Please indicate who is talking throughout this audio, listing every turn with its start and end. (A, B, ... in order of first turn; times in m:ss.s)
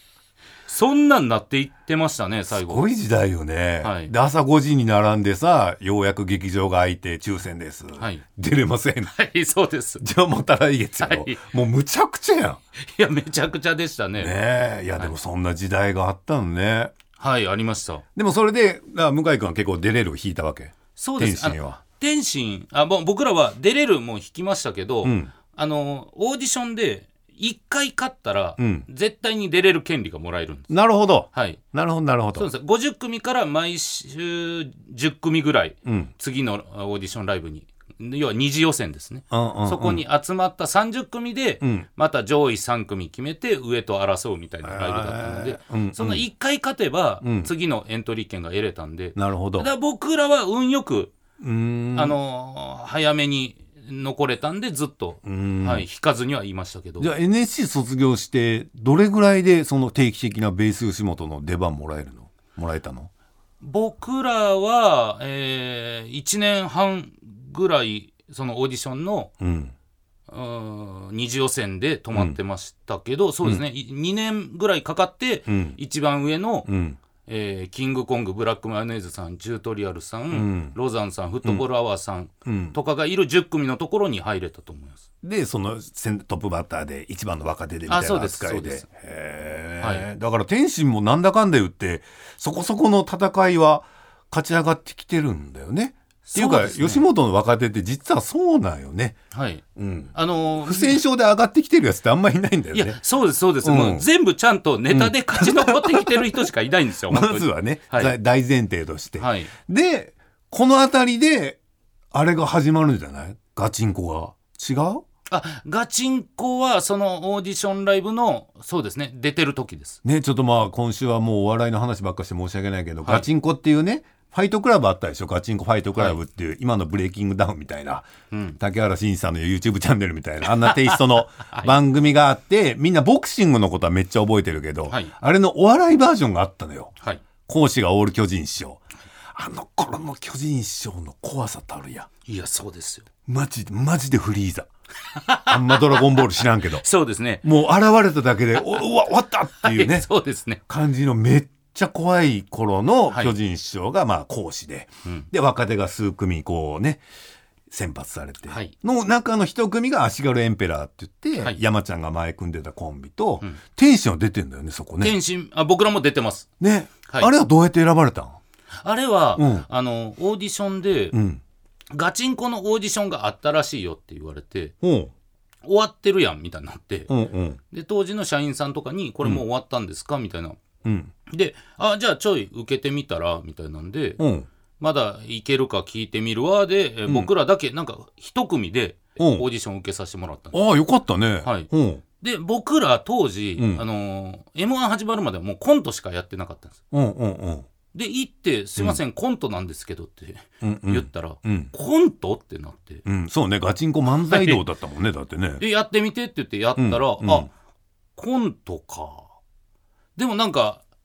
0:00.7-0:02.9 A
0:02.5-0:09.1 B
0:03.8-0:04.1 A
0:08.0-0:08.2 A
0:09.1-0:10.0 A
0:10.0-0:12.6 B
0:11.0-0:11.4 A
0:12.8-0:14.4 A
0:14.2-0:16.9 B
0:17.2-0:18.0 A
0:18.1-0:21.8 B
0:21.0-0:30.7 A
0:25.0-0:25.3 B
0:28.6-0:28.9 B
0:30.7-0:32.5 B
0:31.3-0:31.6 A
0:32.4-0:51.1 A
0:35.8-0:36.1 B
0:39.3-0:40.0 B
0:44.6-0:46.3 B
0:47.2-0:47.5 B
0:49.2-0:49.7 B
0:51.4-0:52.2 B
0:51.9-0:57.1 A
0:55.2-0:55.8 B
0:57.0-1:03.1 B
1:03.6-1:09.3 A
1:09.4-1:09.7 B
1:10.3-1:16.7 A
1:12.1-1:12.4 B
1:15.5-1:15.8 B
1:16.7-1:17.0 B
1:17.2-1:25.0 A
1:20.3-1:20.7 B
1:22.4-1:22.8 B
1:25.2-1:39.2 B
1:27.9-1:28.8 A
1:29.8-1:30.1 A
1:36.2-1:37.0 A
1:39.3-1:39.6 A
1:39.7-1:43.0 B
1:40.1-1:41.0 A
1:42.7-1:48.1 A
1:43.6-1:44.1 B
1:44.9-1:46.3 B
1:47.1-1:51.6 B
1:49.2-1:49.5 A
1:52.1-1:55.0 B
1:55.3-2:00.0 A
2:00.0-2:16.9 B
2:08.3-2:08.6 A
2:10.6-2:11.8 A
2:17.4-2:22.1 B
2:22.3-2:23.1 A
2:23.3-2:24.7 B
2:25.1-2:26.2 A
2:25.4-2:26.8 B
2:26.8-2:27.4 A
2:27.4-2:30.1 B
2:29.6-2:30.6 A
2:30.7-2:37.0 B
2:37.7-2:45.2 B
2:38.5-2:38.7 A
2:45.0-2:46.5 A
2:46.6-2:48.4 B
2:47.1-2:47.3 A
2:48.8-2:51.2 A
2:49.4-2:49.7 B
2:51.1-2:51.4 B
2:51.9-2:54.7 A
2:54.8-2:55.1 B
2:55.6-2:57.1 A
2:57.1-2:57.6 B
2:57.7-3:00.6 A
3:00.8-3:01.1 B
3:01.3-3:04.2 A
3:04.2-3:04.5 B
3:04.8-3:10.6 A
3:09.2-3:09.4 B
3:10.5-3:12.0 B
3:11.4-3:16.8 A
3:16.9-3:17.7 B
3:17.9-3:23.0 A
3:20.6-3:21.7 B
3:23.0-3:25.6 B
3:24.3-3:24.6 A
3:25.6-3:27.5 A
3:26.8-3:27.5 B
3:28.2-3:29.3 A
3:30.2-3:30.8 A